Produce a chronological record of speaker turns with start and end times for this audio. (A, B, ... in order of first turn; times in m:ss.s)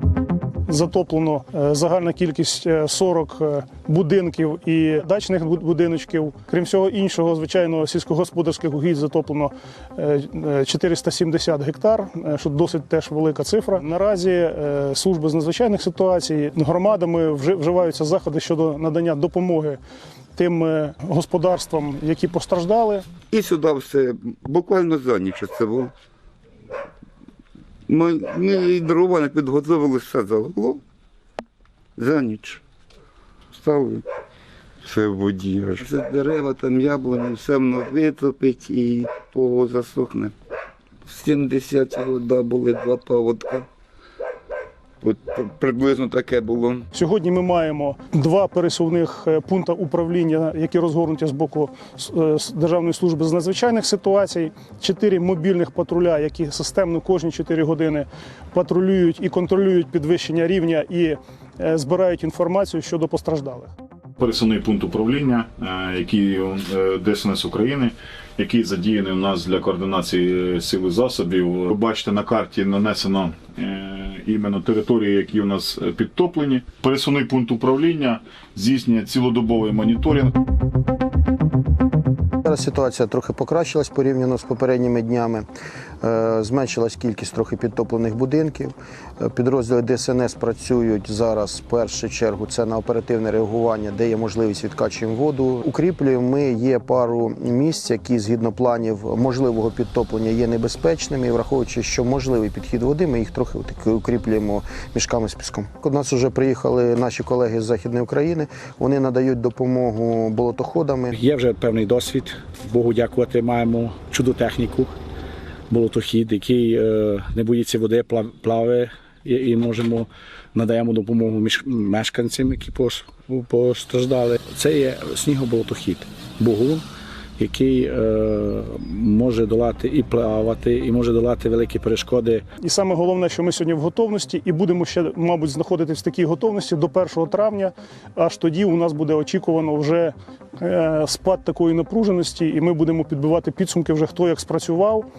0:00.6-0:19.8 A
0:20.3-0:23.0 A
0:23.3-0:25.9 B
0:27.9-0:30.8 B
0:32.0-0:32.6 B
0:33.5-0:34.0 B
0:34.8-0:40.3 B
0:41.1-0:43.7 B
0:45.0-0:46.8 B
0:46.9-1:03.7 A
1:04.2-1:20.3 C
1:22.4-1:25.4 D
1:26.0-1:51.1 D
1:51.1-1:55.0 E
1:55.7-2:06.8 E
2:07.4-2:12.4 E
2:12.6-2:25.0 A